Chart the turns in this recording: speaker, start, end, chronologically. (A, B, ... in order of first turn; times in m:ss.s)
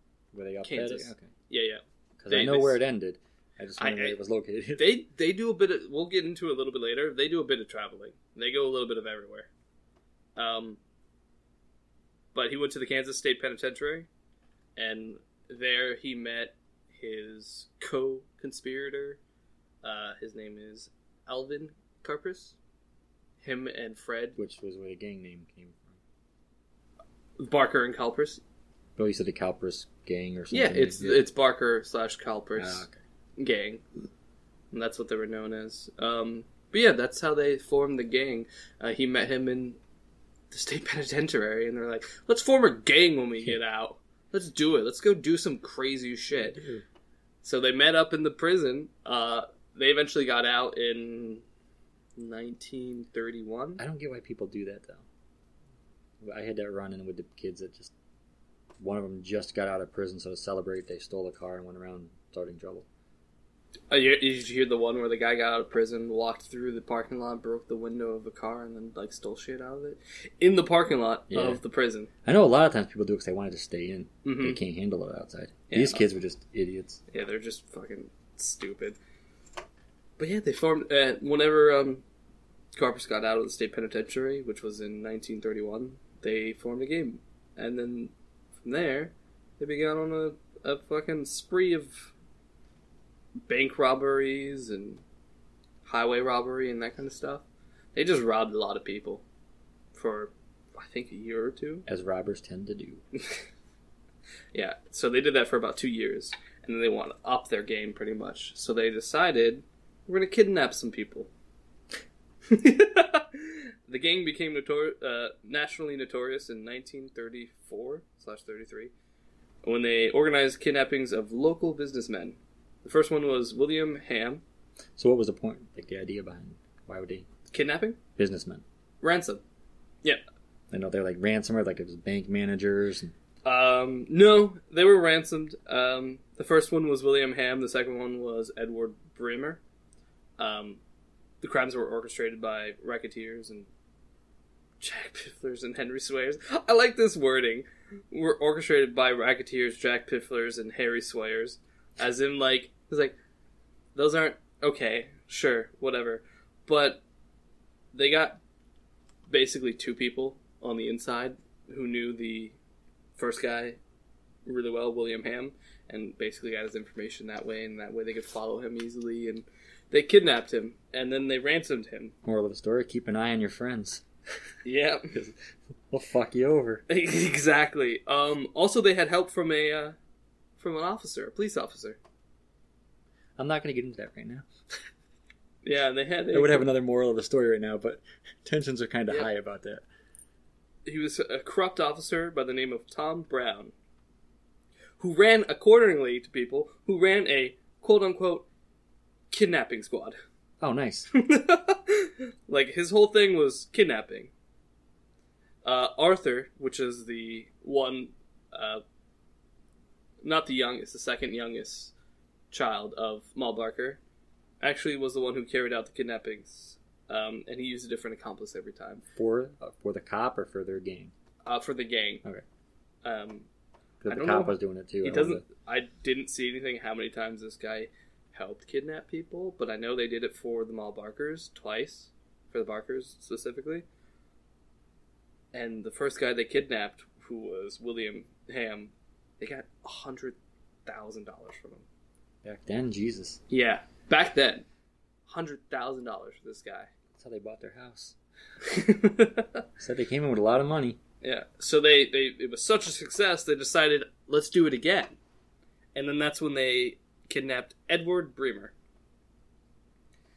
0:00.3-0:01.3 A
0:00.6-0:02.8 B
0:02.2-0:05.0 A
0:03.8-0:04.2 B
0:04.8-0:09.5 B
0:10.4-0:10.8 B
0:12.3-0:14.1 B
0:14.8-0:19.2 B
0:19.8-0:22.6 B
0:23.4-0:24.4 B
0:24.4-0:26.0 A
0:27.4-0:28.4 B
0:29.0-0:31.2 A
0:30.5-0:32.9 B
0:32.6-0:33.0 A
0:33.4-0:34.1 B
0:34.7-0:39.8 B
0:40.5-0:46.6 B
0:46.3-0:46.8 A
0:47.4-0:51.4 B
0:52.2-0:53.8 B
0:53.8-0:55.0 A
0:56.2-0:57.9 A
0:58.8-1:02.9 A
1:03.9-1:12.1 B
1:11.3-1:11.6 A
1:12.2-1:17.0 A
1:14.2-1:14.6 B
1:15.7-1:16.0 B
1:17.1-1:19.0 B
1:20.2-1:22.0 B
1:22.8-1:28.1 B
1:28.6-1:32.1 B
1:33.5-1:35.0 B
1:35.8-1:39.2 B
1:39.9-1:41.8 B
1:41.9-1:43.0 A
1:43.2-1:43.4 B
1:44.5-1:51.3 B
1:52.5-1:58.9 B
1:59.6-2:04.4 B
2:05.0-2:07.3 A
2:07.5-2:08.0 B
2:08.2-2:08.6 A
2:09.0-2:09.4 B
2:10.7-2:13.1 A
2:13.5-2:19.6 B
2:20.4-2:20.8 B
2:21.4-2:23.7 B
2:24.8-2:33.2 B
2:34.0-2:37.0 B
2:37.9-2:38.4 B
2:39.3-2:42.6 B
2:43.2-2:43.8 B
2:44.4-2:52.1 B
2:52.2-2:54.0 A
2:54.6-2:55.1 B
2:55.9-2:56.8 A
2:56.9-3:00.0 B
3:00.6-3:02.0 B
3:03.4-3:04.5 A
3:05.6-3:06.7 B
3:06.3-3:09.8 A
3:10.9-3:13.7 B
3:15.0-3:18.5 B
3:19.3-3:20.2 B
3:20.6-3:21.1 A
3:21.1-3:24.3 B
3:25.6-3:28.8 B
3:30.2-3:31.9 B
3:32.5-3:34.0 B
3:34.6-3:39.0 B
3:39.2-3:41.1 A
3:41.5-3:42.2 B
3:43.0-3:43.5 B
3:44.0-3:45.4 A
3:44.1-3:53.8 B
3:55.5-4:01.8 B
4:02.4-4:03.4 A
4:03.5-4:04.7 B
4:05.3-4:06.9 B
4:07.2-4:08.2 A
4:08.6-4:09.6 B
4:09.8-4:11.0 A
4:11.2-4:15.2 B
4:16.0-4:18.7 B